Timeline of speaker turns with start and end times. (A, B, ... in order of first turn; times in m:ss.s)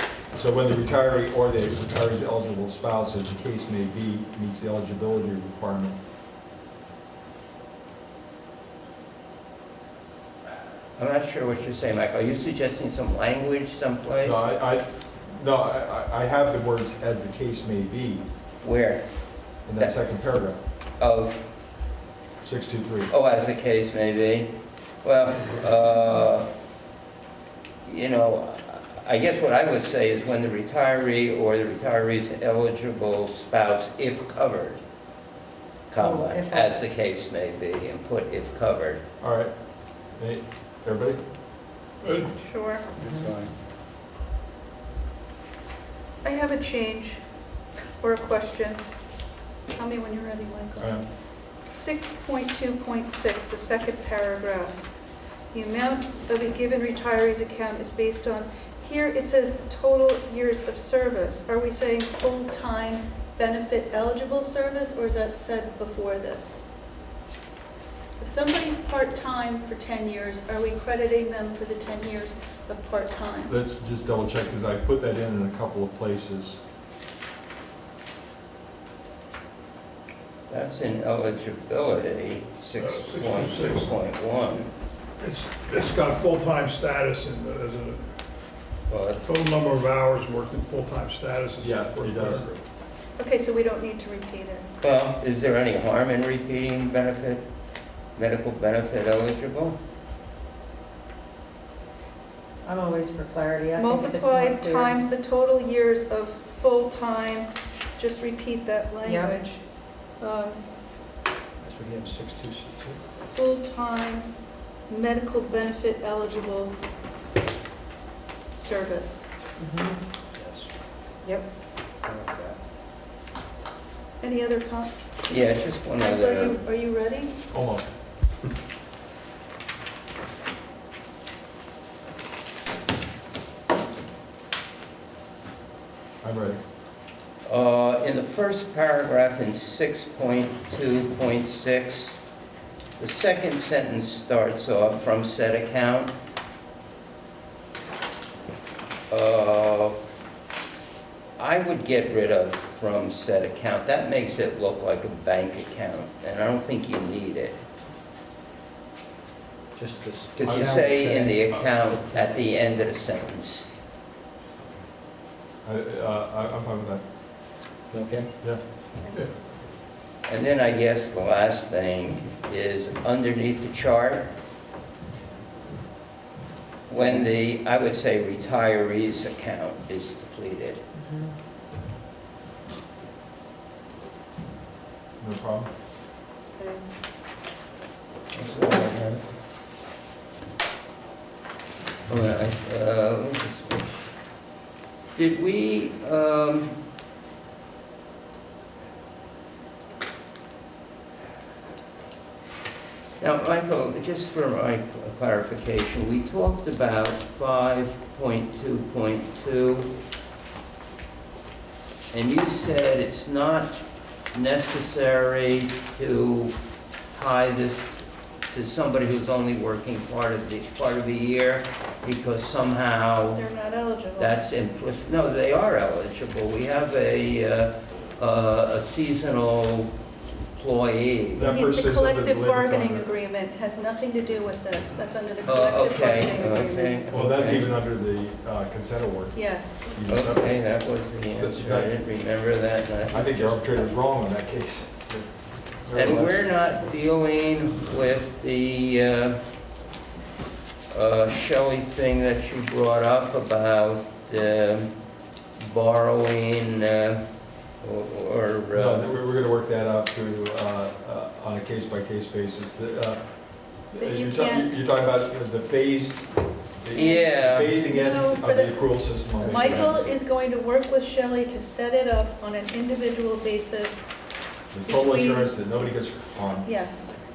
0:00.3-0:06.0 A
0:11.0-0:14.4 B
0:14.2-0:18.2 A
0:18.6-0:19.0 B
0:19.7-0:20.6 A
0:21.0-0:21.4 B
0:22.4-0:23.1 A
0:23.1-0:26.5 B
0:27.8-0:34.8 B
0:35.9-0:39.0 B
0:36.0-0:36.8 C
0:39.2-0:39.5 A
0:40.2-0:41.2 A
0:42.0-0:42.3 D
0:42.4-0:42.9 E
0:43.0-0:43.5 F
0:46.2-0:47.2 E
0:48.0-0:48.8 E
0:49.7-0:51.0 E
0:50.8-0:51.0 A
0:51.6-0:54.9 E
0:55.5-1:06.6 E
1:08.2-1:13.5 E
1:13.5-1:16.6 A
1:20.5-1:24.7 B
1:22.8-1:23.9 D
1:25.2-1:28.1 D
1:28.9-1:29.2 B
1:29.2-1:32.6 D
1:31.6-1:32.5 A
1:33.2-1:34.7 E
1:34.8-1:37.4 B
1:38.2-1:39.8 B
1:42.6-1:45.0 C
1:43.8-1:50.6 E
1:49.0-1:49.4 C
1:51.6-1:53.0 F
1:53.3-1:54.3 E
1:54.9-1:56.8 E
1:58.6-1:59.3 E
1:59.6-2:00.0 C
2:00.4-2:00.7 F
2:02.0-2:02.6 F
2:04.2-2:05.0 E
2:05.3-2:06.6 B
2:06.0-2:07.3 E
2:07.5-2:07.8 A
2:16.2-2:16.6 A
2:17.5-2:22.2 B
2:23.0-2:26.2 B
2:29.1-2:30.0 B
2:31.4-2:37.6 B
2:39.8-2:42.7 F
2:40.4-2:43.7 B
2:45.6-2:47.0 A
2:47.9-2:48.3 F
2:50.3-2:54.3 B
2:56.9-3:00.8 B
3:01.0-3:01.3 C
3:05.2-3:05.7 A
3:06.6-3:06.8 E
3:08.3-3:09.2 B
3:12.1-3:13.9 B
3:15.2-3:16.8 B
3:23.2-3:29.9 B
3:32.1-3:33.8 B
3:34.3-3:36.6 B
3:37.1-3:43.4 B
3:43.4-3:44.4 E
3:44.2-3:49.9 B
3:50.6-3:51.5 B
3:51.4-3:53.1 A
3:51.4-3:57.0 E
3:55.4-3:57.7 B
3:57.1-4:00.6 A
3:59.4-3:59.9 E
4:00.1-4:03.6 B
4:01.3-4:01.9 A
4:03.1-4:05.3 A
4:05.9-4:06.5 A
4:05.9-4:09.4 B
4:10.9-4:14.9 B
4:15.6-4:17.2 B
4:17.8-4:19.1 B
4:18.7-4:23.2 A
4:23.9-4:26.3 A
4:24.0-4:24.7 E
4:26.8-4:30.1 A
4:26.9-4:27.3 E
4:26.9-4:27.8 B
4:27.8-4:28.8 E
4:29.4-4:30.1 F
4:29.4-4:34.1 E
4:34.7-4:36.7 A
4:34.9-4:35.5 E
4:36.6-4:37.1 E